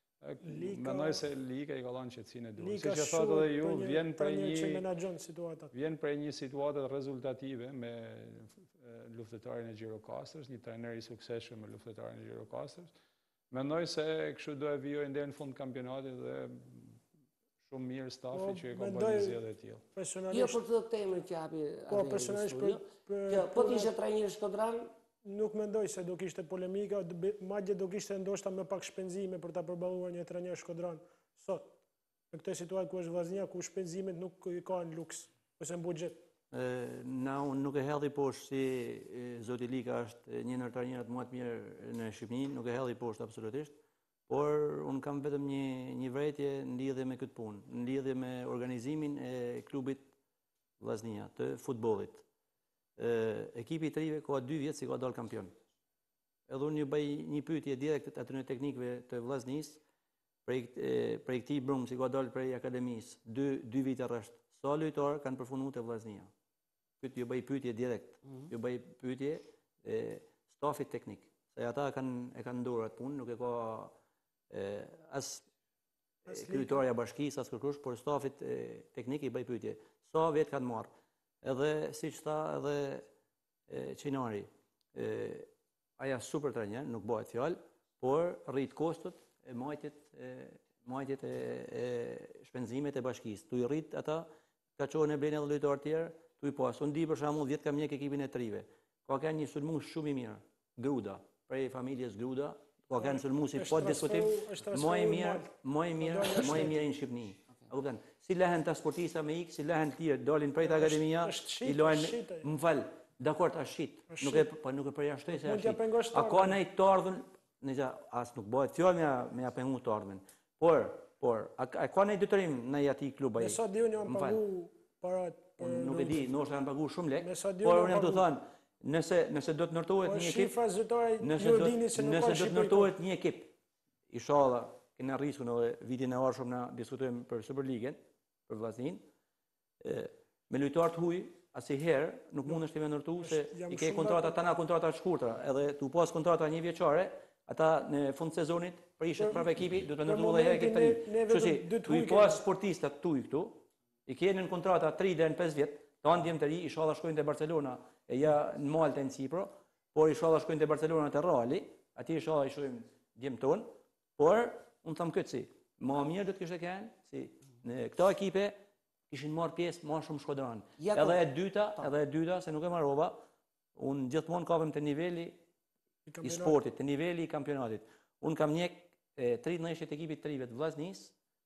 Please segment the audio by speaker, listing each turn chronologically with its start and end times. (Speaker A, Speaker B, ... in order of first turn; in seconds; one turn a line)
Speaker A: 0.2-4.9
Speaker B: 0.5-1.2
Speaker B: 2.6-5.7
Speaker A: 5.7-12.9
Speaker A: 13.5-17.0
Speaker A: 17.6-19.8
Speaker B: 18.3-19.4
Speaker B: 19.9-20.6
Speaker C: 20.3-24.9
Speaker B: 21.9-23.9
Speaker B: 25.2-31.8
Speaker B: 32.3-36.2
Speaker D: 36.5-43.8
Speaker D: 44.3-50.1
Speaker D: 50.8-52.2
Speaker D: 53.0-55.5
Speaker D: 56.5-59.8
Speaker D: 60.5-66.3
Speaker D: 67.0-73.9
Speaker D: 74.5-75.5
Speaker D: 76.3-80.9
Speaker B: 76.3-76.8
Speaker D: 81.4-83.1
Speaker D: 83.7-124.4
Speaker B: 103.0-106.8
Speaker B: 110.6-112.5
Speaker B: 114.1-114.5
Speaker B: 115.3-116.6
Speaker B: 123.4-126.3
Speaker D: 125.6-130.6
Speaker B: 127.2-128.3
Speaker B: 130.0-132.9
Speaker D: 131.2-133.6
Speaker D: 134.1-139.0
Speaker D: 139.8-168.6
Speaker B: 143.2-144.4
Speaker B: 149.2-149.5
Speaker B: 150.1-152.4
Speaker D: 169.1-173.2
Speaker C: 170.8-171.2
Speaker D: 173.8-175.4
Speaker B: 176.1-176.6
Speaker D: 176.2-181.1